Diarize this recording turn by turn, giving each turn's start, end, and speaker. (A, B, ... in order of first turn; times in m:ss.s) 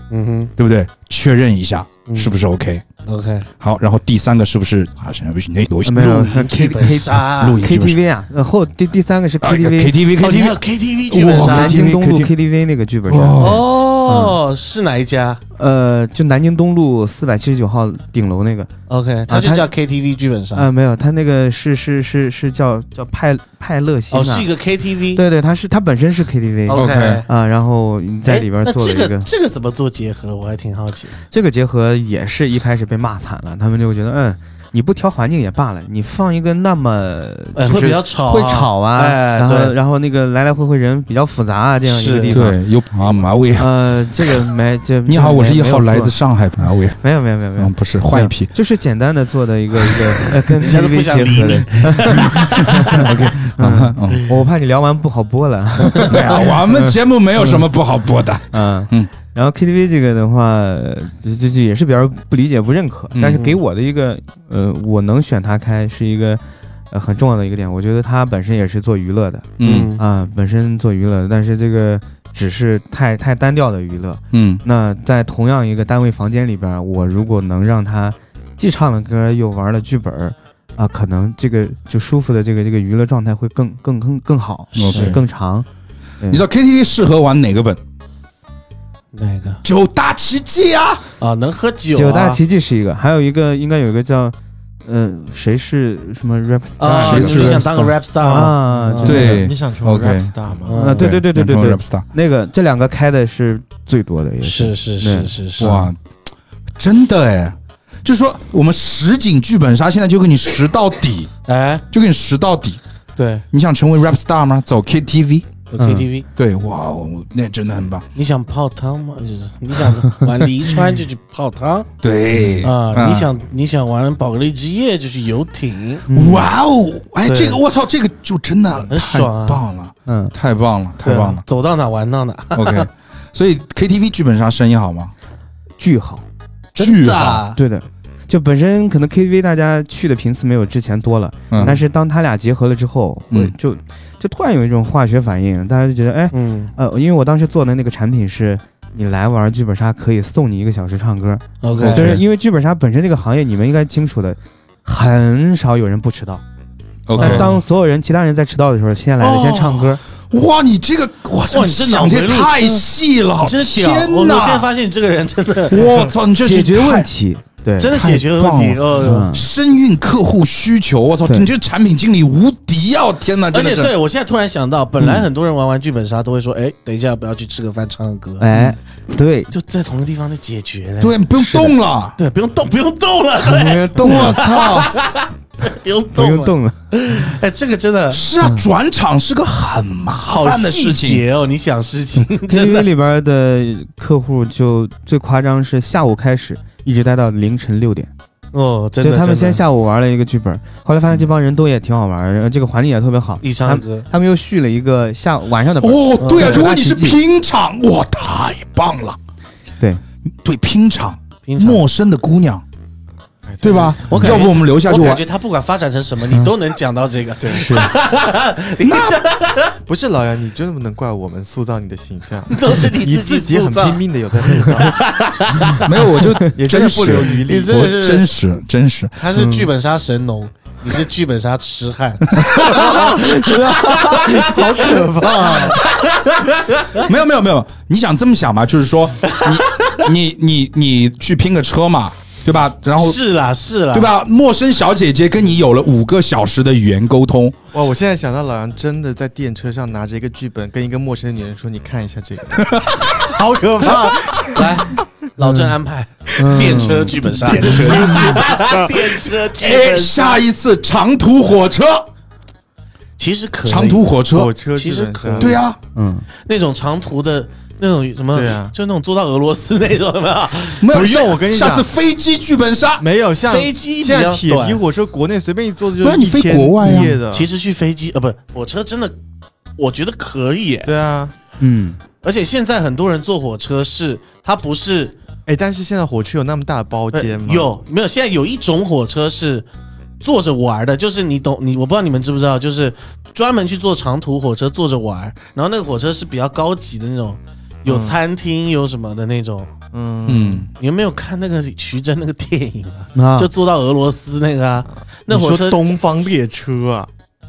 0:00.1-0:00.5 A
0:00.6-0:02.8 B
0:02.1-0:02.3 A
0:03.0-0:03.5 A
0:03.6-0:06.1 B
0:05.8-0:10.0 C
0:05.9-0:07.6 A
0:07.4-0:08.0 B
0:09.4-0:12.3 B
0:10.2-0:11.8 A
0:11.3-0:14.4 C
0:13.1-0:13.6 B
0:13.4-0:15.4 A
0:15.6-0:18.7 C
0:18.9-0:20.7 A
0:19.3-0:19.7 C
0:20.5-0:24.5 C
0:24.1-0:25.2 A
0:25.1-0:29.3 C
0:26.7-0:27.3 A
0:26.7-0:27.2 B
0:28.2-0:31.2 A
0:31.3-0:42.6 C
0:37.6-0:39.8 A
0:41.8-0:42.4 A
0:42.3-0:44.3 B
0:43.6-0:46.2 C
0:45.0-0:47.0 B
0:47.0-0:57.6 C
0:47.6-0:48.5 B
0:50.5-0:53.1 A
0:52.9-0:54.2 B
0:56.1-0:59.1 B
0:58.5-1:25.6 C
1:03.1-1:03.4 B
1:09.6-1:09.9 B
1:09.6-1:10.0 A
1:14.3-1:14.6 B
1:24.7-1:25.2 B
1:24.8-1:25.2 A
1:26.3-1:27.8 B
1:29.1-1:29.6 A
1:29.6-1:31.0 B
1:31.2-1:32.4 A
1:31.9-1:39.5 C
1:36.8-1:39.3 A
1:37.0-1:37.9 B
1:38.3-1:40.8 D
1:39.0-1:40.3 B
1:40.6-1:41.1 A
1:40.7-1:45.9 C
1:41.0-1:42.0 B
1:44.4-1:45.8 A
1:45.6-1:46.0 B
1:46.8-1:51.3 B
1:51.5-1:51.8 A
1:51.9-1:52.8 B
1:53.2-1:53.4 A
1:53.5-1:55.5 B
1:55.7-1:56.2 A
1:55.8-1:56.0 C
1:56.4-1:58.0 B
1:58.1-2:01.9 A
2:02.0-2:03.3 B
2:02.6-2:06.0 A
2:06.1-2:06.5 C
2:06.1-2:11.4 B
2:07.2-2:07.6 D
2:08.9-2:09.6 A
2:10.0-2:10.3 C
2:11.0-2:12.9 A
2:12.5-2:15.1 B
2:15.8-2:16.2 C
2:16.7-2:17.6 A
2:16.8-2:17.4 B
2:17.5-2:36.4 C
2:21.5-2:21.8 B
2:21.6-2:21.8 A
2:26.3-2:26.7 A
2:31.6-2:32.2 A
2:31.8-2:32.2 B
2:37.1-2:37.6 B
2:37.2-2:37.6 A
2:37.2-2:40.0 C
2:39.2-2:40.0 A
2:40.3-2:44.7 B
2:41.5-2:42.8 A
2:43.4-2:46.0 A
2:45.7-2:47.1 B
2:46.4-2:47.9 C
2:47.8-2:49.3 A
2:47.8-2:53.9 B
2:49.0-2:49.4 C
2:51.2-2:51.5 C
2:53.5-2:58.5 A
2:58.4-2:59.5 C
2:59.5-3:08.3 A
3:01.0-3:02.2 B
3:03.5-3:04.4 C
3:04.0-3:04.9 B
3:06.1-3:06.8 C
3:08.1-3:11.2 B
3:10.3-3:12.9 A
3:12.5-3:18.1 C
3:18.5-3:19.6 A
3:19.0-3:27.2 C
3:23.4-3:24.1 A
3:25.8-3:29.2 B
3:26.2-3:26.6 A
3:30.4-3:32.6 B
3:31.5-3:31.8 A
3:33.4-3:34.4 D
3:33.6-3:35.2 B
3:34.1-3:39.8 A
3:37.4-3:37.8 D
3:37.5-3:37.9 C
3:39.8-3:45.0 D
3:42.5-3:45.9 A
3:45.8-3:49.2 B
3:46.4-3:47.9 D
3:47.4-3:48.3 A
3:49.2-3:57.1 A
3:49.3-3:49.7 C
3:52.7-3:53.2 D
3:53.0-3:54.4 C
3:54.1-3:55.8 D
3:56.9-4:03.2 B
3:59.3-3:59.9 A
4:03.0-4:04.1 A
4:03.9-4:07.6 B
4:07.7-4:14.8 D
4:12.6-4:13.3 B
4:14.3-4:14.6 B
4:14.5-4:20.4 A
4:15.4-4:15.7 C
4:16.4-4:17.2 C
4:17.3-4:18.5 B
4:17.6-4:19.0 D
4:19.6-4:22.1 B
4:23.2-4:24.1 A
4:23.6-4:24.5 B
4:24.2-4:25.6 D
4:24.7-4:25.6 A
4:25.4-4:25.8 B
4:25.9-4:26.2 C
4:26.4-4:31.0 A
4:28.3-4:28.7 D
4:30.8-4:33.0 B
4:30.9-4:31.9 D
4:33.0-4:37.5 D
4:33.4-4:34.8 A
4:36.0-4:37.2 B
4:36.8-4:39.2 A
4:39.8-4:40.9 A
4:40.8-4:41.3 D
4:41.6-4:42.0 C
4:42.2-4:45.1 A
4:45.5-4:47.8 D
4:47.1-4:49.7 A
4:50.2-4:59.7 A
4:57.8-4:58.2 D
4:59.9-5:00.7 D
5:00.2-5:00.7 B
5:00.8-5:06.0 A
5:03.1-5:03.5 C
5:05.3-5:07.1 D